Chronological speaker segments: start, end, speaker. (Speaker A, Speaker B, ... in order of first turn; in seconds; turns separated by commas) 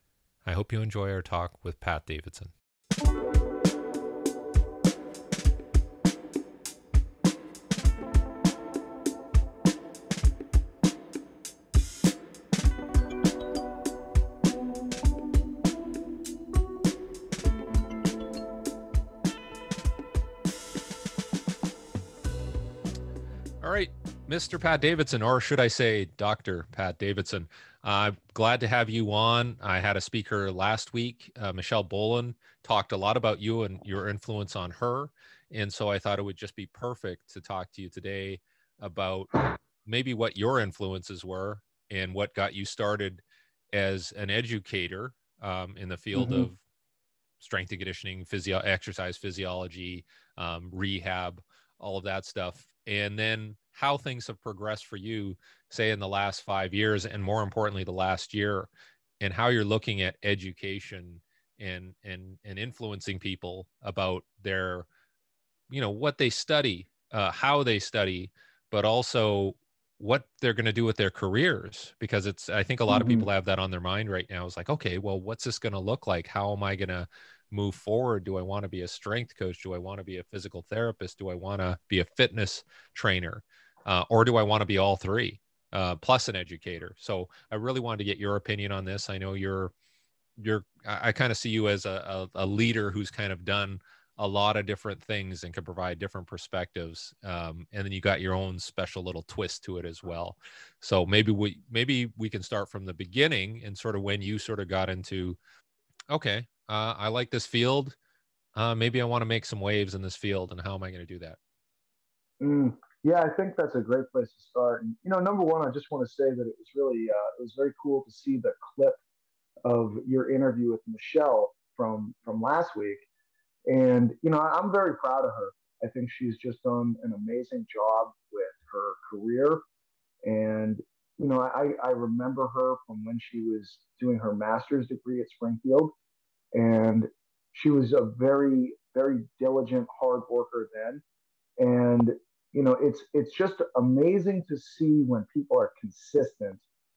Speaker A: 0.4-2.5, Speaker A: 23.6-46.6, Speaker B: 46.1-46.4, Speaker A: 47.4-58.7, Speaker A: 59.2-64.8, Speaker A: 65.7-89.7, Speaker B: 72.9-73.3, Speaker A: 90.4-105.4, Speaker A: 106.1-108.0, Speaker A: 108.5-111.4, Speaker B: 112.4-119.0, Speaker B: 119.6-123.0, Speaker B: 123.7-129.6, Speaker B: 130.2-135.9, Speaker B: 136.5-141.0, Speaker B: 141.6-146.6